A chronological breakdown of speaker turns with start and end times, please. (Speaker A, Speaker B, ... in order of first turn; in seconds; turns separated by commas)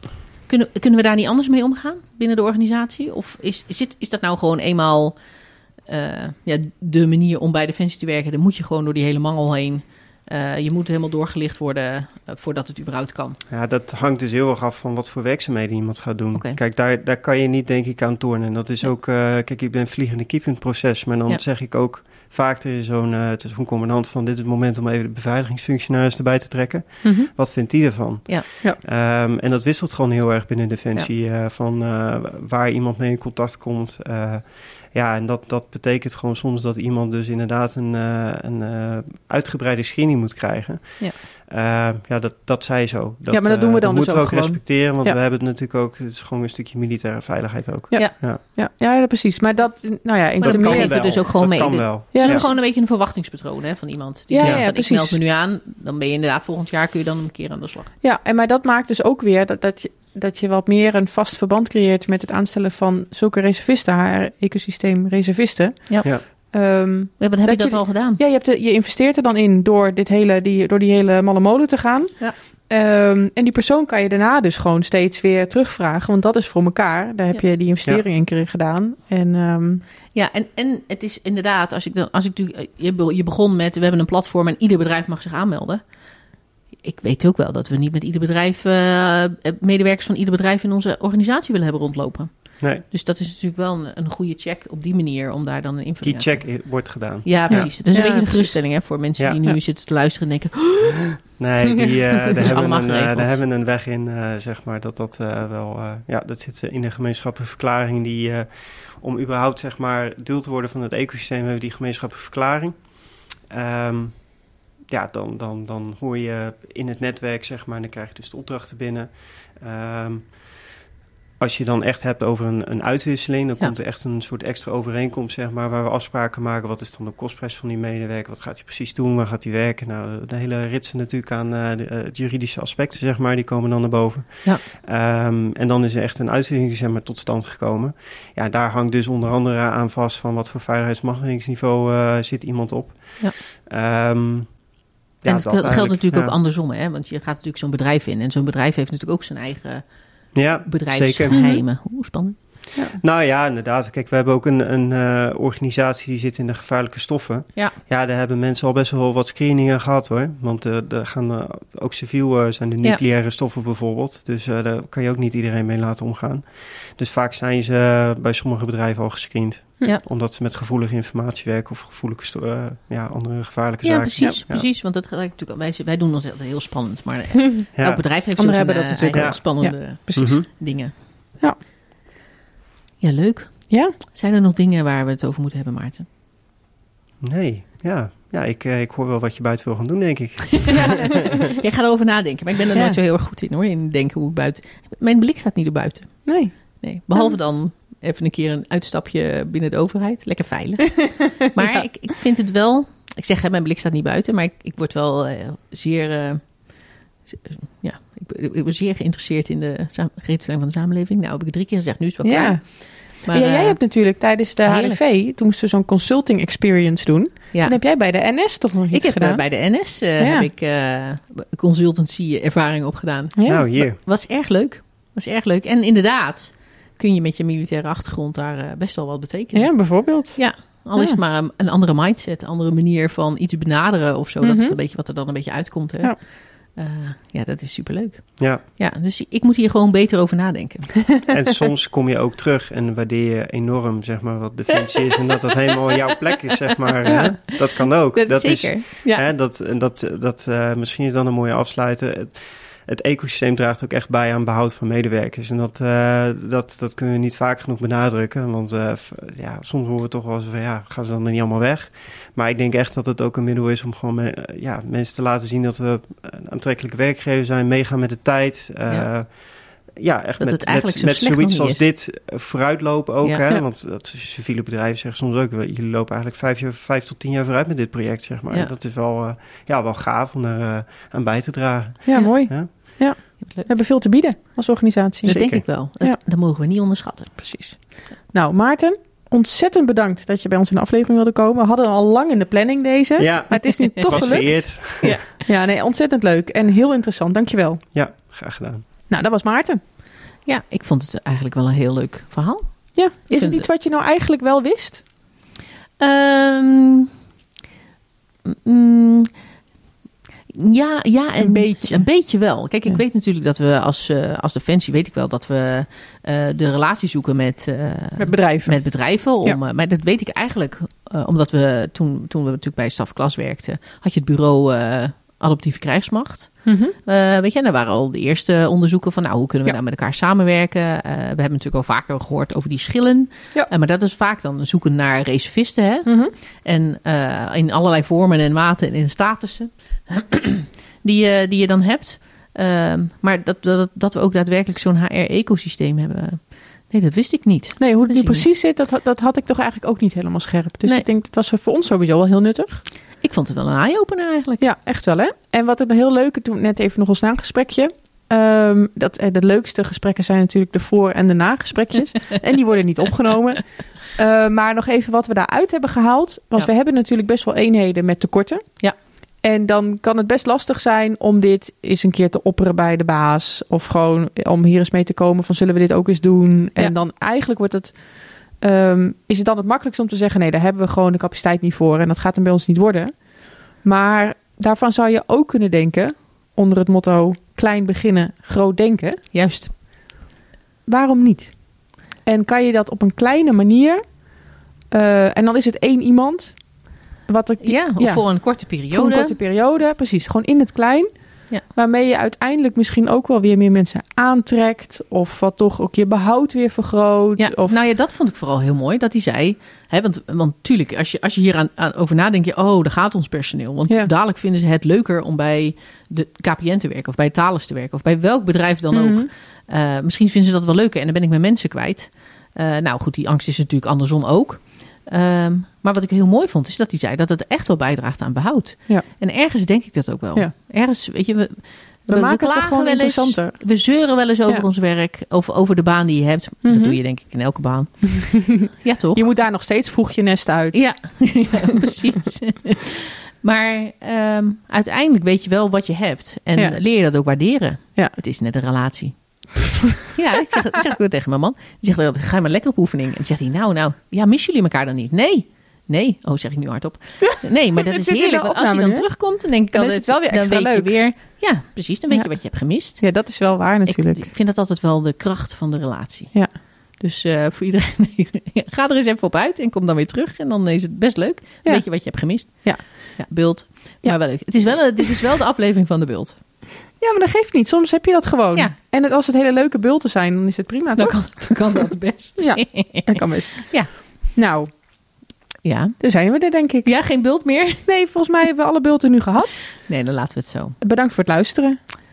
Speaker A: 0.5-5.2, Speaker A: 5.8-13.4, Speaker B: 13.5-48.4, Speaker C: 27.0-27.3, Speaker C: 43.3-45.2, Speaker C: 47.9-51.4, Speaker A: 50.4-57.9, Speaker B: 50.4-52.5, Speaker C: 52.1-52.5, Speaker C: 54.3-55.2, Speaker C: 58.0-79.8, Speaker A: 65.9-66.5, Speaker A: 67.2-68.2, Speaker A: 80.1-101.2, Speaker B: 96.0-98.0, Speaker C: 97.5-98.6, Speaker B: 101.3-120.6, Speaker A: 102.3-103.4, Speaker B: 121.4-146.3, Speaker A: 145.2-152.4, Speaker B: 150.3-151.4, Speaker C: 151.3-151.6, Speaker B: 153.0-174.7, Speaker A: 173.8-180.9, Speaker B: 177.7-178.0, Speaker C: 178.4-180.8, Speaker B: 179.1-180.4, Speaker A: 183.0-186.1, Speaker C: 183.7-183.9, Speaker B: 187.2-191.3, Speaker C: 190.8-191.0, Speaker A: 191.4-215.0, Speaker C: 192.7-193.0, Speaker C: 196.2-197.3, Speaker C: 212.2-220.5, Speaker A: 217.5-217.8, Speaker A: 218.9-241.2, Speaker C: 223.3-223.7, Speaker B: 223.5-224.0, Speaker C: 229.5-231.2, Speaker C: 234.4-234.8, Speaker B: 241.3-282.7, Speaker A: 246.1-246.3, Speaker A: 246.8-249.2, Speaker C: 247.1-247.4, Speaker A: 268.9-269.2, Speaker A: 270.4-271.9, Speaker C: 282.0-286.2, Speaker A: 283.4-283.7, Speaker B: 285.2-285.7, Speaker A: 285.2-287.8, Speaker C: 287.4-297.8, Speaker B: 293.2-295.2, Speaker A: 294.0-295.3, Speaker B: 297.9-298.8, Speaker C: 299.1-299.8, Speaker A: 300.4-303.6, Speaker C: 302.9-305.0, Speaker A: 306.0-307.1, Speaker A: 308.4-309.4, Speaker A: 310.5-348.5, Speaker C: 311.4-312.1, Speaker C: 318.2-319.6, Speaker C: 326.6-326.9, Speaker C: 336.1-336.3, Speaker C: 347.8-352.8, Speaker A: 353.2-354.7, Speaker C: 354.6-389.3, Speaker A: 389.3-389.8, Speaker C: 390.9-407.8, Speaker A: 397.6-399.4, Speaker A: 407.4-439.2, Speaker C: 418.9-419.3, Speaker C: 432.1-433.9, Speaker C: 436.6-437.0, Speaker C: 438.2-441.5, Speaker A: 440.7-476.4, Speaker C: 457.9-461.0, Speaker C: 462.1-464.3, Speaker C: 471.6-473.2, Speaker C: 474.0-474.7, Speaker C: 477.0-481.8, Speaker A: 481.0-483.9, Speaker C: 482.4-484.7, Speaker A: 485.6-486.1, Speaker C: 486.0-486.9, Speaker A: 486.8-487.9, Speaker C: 487.8-489.9, Speaker A: 489.8-490.8, Speaker C: 490.8-491.8